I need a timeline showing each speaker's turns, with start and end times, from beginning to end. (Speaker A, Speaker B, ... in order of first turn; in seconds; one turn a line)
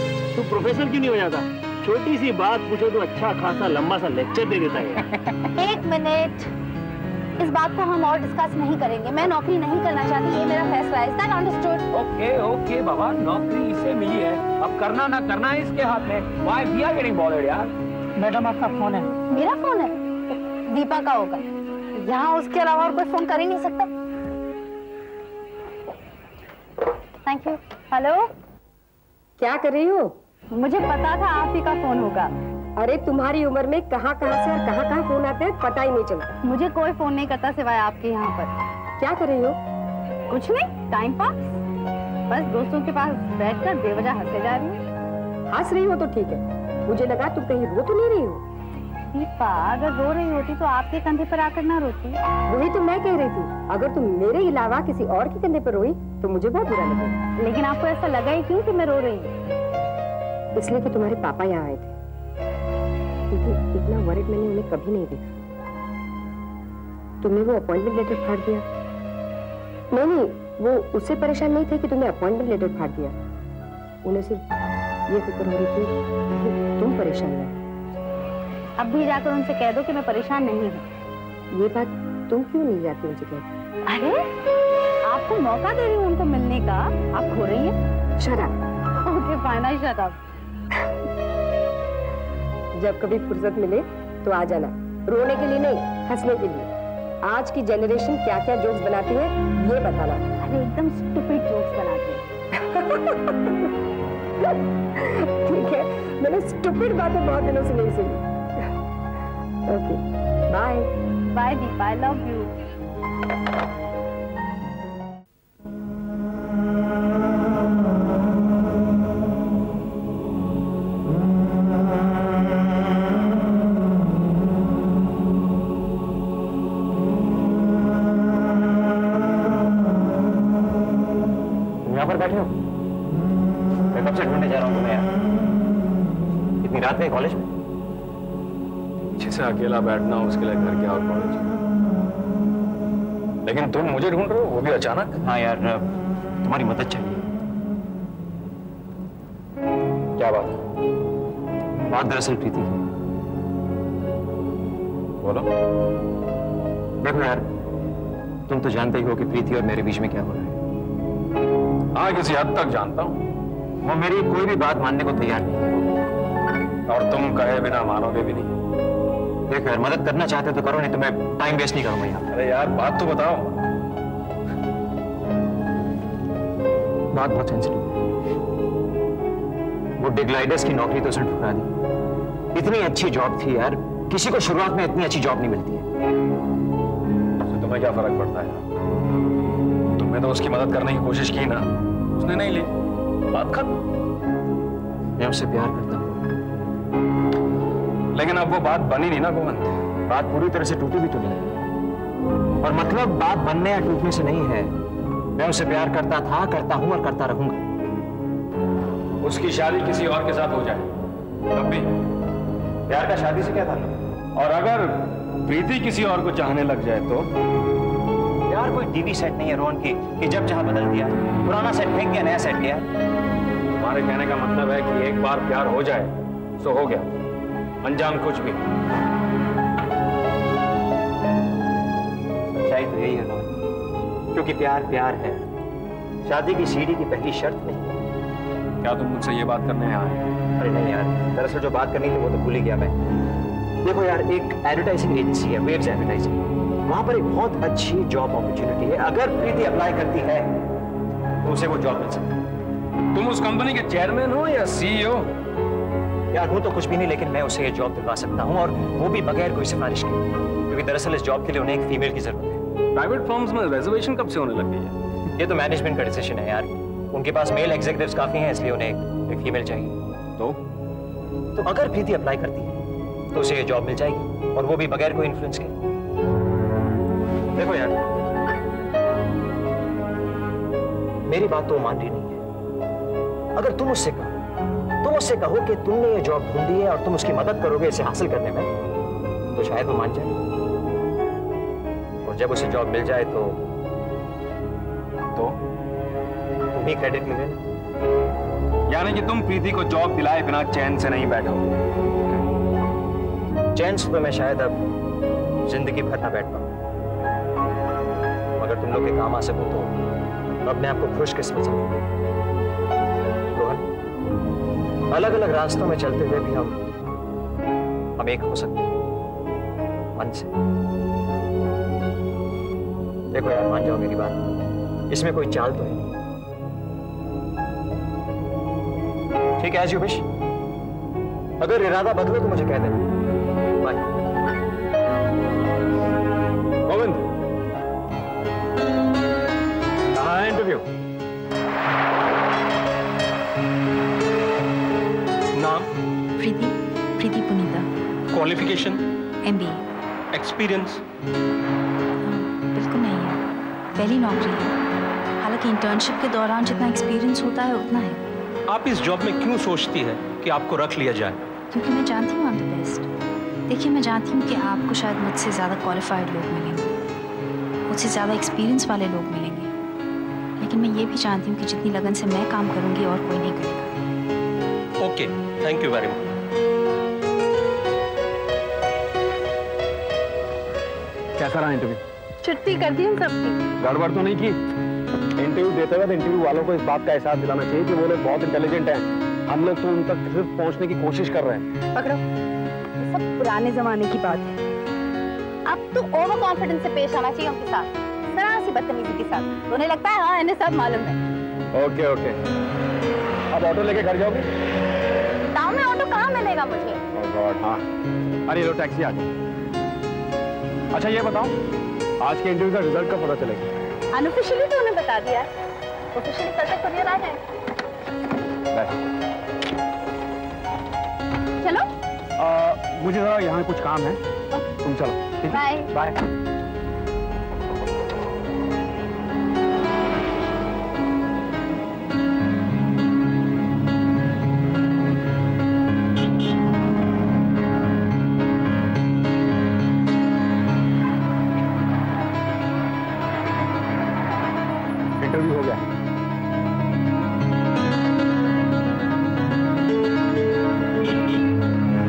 Speaker A: 0.3-5.0
Speaker B: 5.6-6.5
Speaker B: 7.4-11.8
Speaker C: 11.9-17.7
Speaker B: 19.3-19.9
Speaker B: 20.7-21.4
Speaker B: 22.0-23.9
Speaker B: 27.2-28.3
Speaker D: 29.4-30.1
Speaker B: 30.5-32.3
Speaker D: 32.8-36.3
Speaker B: 36.4-38.5
Speaker D: 39.0-39.6
Speaker B: 40.3-41.6
Speaker B: 42.3-44.8
Speaker D: 45.5-48.4
Speaker B: 49.1-52.2
Speaker D: 52.5-57.2
Speaker B: 57.4-59.3
Speaker D: 60.5-61.9
Speaker D: 63.3-65.4
Speaker D: 67.2-68.6
Speaker D: 69.9-73.1
Speaker D: 74.0-74.4
Speaker D: 75.1-77.5
Speaker B: 78.8-80.8
Speaker D: 81.5-83.5
Speaker B: 83.9-84.2
Speaker B: 85.0-87.8
Speaker D: 88.2-88.5
Speaker B: 89.0-90.2
Speaker D: 92.8-96.7
Speaker D: 97.2-100.2
Speaker B: 100.4-102.2
Speaker D: 102.7-103.3
Speaker D: 104.4-108.2
Speaker D: 109.7-110.9
Speaker B: 111.3-112.5
Speaker E: 131.8-132.5
Speaker E: 133.9-135.1
Speaker E: 136.6-137.5
Speaker C: 139.2-141.6
Speaker C: 143.4-145.2
Speaker E: 145.2-145.9
Speaker E: 146.4-147.3
Speaker C: 150.2-150.6
Speaker E: 151.9-152.8
Speaker C: 155.2-155.5
Speaker E: 157.0-157.4
Speaker E: 158.5-160.6
Speaker C: 161.9-163.2
Speaker E: 163.8-165.9
Speaker C: 166.9-168.5
Speaker E: 169.5-172.2
Speaker C: 172.3-173.5
Speaker E: 177.1-178.0
Speaker E: 180.0-181.7
Speaker E: 182.5-185.8
Speaker C: 187.5-188.6
Speaker C: 189.9-192.7
Speaker C: 193.3-193.8
Speaker E: 195.2-196.2
Speaker C: 198.1-199.7
Speaker E: 200.1-201.6
Speaker E: 202.6-204.8
Speaker E: 205.3-207.6
Speaker C: 209.2-210.9
Speaker C: 211.5-211.9
Speaker E: 212.9-214.0
Speaker C: 214.3-217.3
Speaker E: 218.5-222.9
Speaker C: 223.8-227.1
Speaker C: 227.8-228.6
Speaker E: 232.5-233.6
Speaker E: 234.3-235.4
Speaker E: 236.2-238.0
Speaker C: 238.8-240.2
Speaker E: 240.6-242.9
Speaker E: 243.8-250.6
Speaker E: 251.4-252.4
Speaker C: 253.1-255.3
Speaker E: 256.3-262.6
Speaker C: 262.9-264.9
Speaker E: 265.4-270.0
Speaker E: 271.5-272.8
Speaker E: 273.3-275.7
Speaker E: 277.5-277.9
Speaker E: 281.3-282.4
Speaker E: 283.5-284.4
Speaker E: 285.0-288.7
Speaker E: 289.5-290.4
Speaker E: 292.2-293.6
Speaker E: 296.7-297.6
Speaker C: 298.9-301.7
Speaker E: 303.7-304.8
Speaker E: 305.6-306.7
Speaker E: 308.6-309.9
Speaker E: 310.6-312.1
Speaker E: 313.5-313.9
Speaker E: 315.1-316.8
Speaker E: 318.2-319.0
Speaker E: 320.2-320.5
Speaker E: 323.3-324.4
Speaker E: 325.1-326.1
Speaker E: 329.6-330.2
Speaker E: 331.6-333.0
Speaker C: 336.9-337.3
Speaker C: 340.1-340.9
Speaker F: 345.6-345.9
Speaker G: 346.4-347.9
Speaker F: 348.3-349.0
Speaker G: 349.4-349.9
Speaker F: 350.3-351.0
Speaker G: 352.2-353.4
Speaker G: 353.9-354.7
Speaker G: 355.4-358.2
Speaker F: 358.7-361.4
Speaker G: 361.7-363.1
Speaker G: 363.7-366.9
Speaker G: 367.9-369.7
Speaker G: 370.6-373.9
Speaker F: 375.0-376.3
Speaker C: 381.4-382.0
Speaker B: 382.4-383.6
Speaker C: 383.8-384.6
Speaker C: 385.4-391.6
Speaker B: 391.9-392.2
Speaker B: 393.0-394.6
Speaker B: 395.6-401.2
Speaker C: 401.7-402.4
Speaker C: 403.5-404.5
Speaker B: 405.6-407.0
Speaker C: 407.1-407.8
Speaker C: 408.5-409.3
Speaker C: 410.9-411.5
Speaker C: 412.2-413.7
Speaker B: 414.1-415.5
Speaker B: 416.1-417.4
Speaker B: 421.6-421.9
Speaker C: 422.4-424.2
Speaker C: 424.8-426.1
Speaker B: 425.5-425.9
Speaker C: 445.2-445.8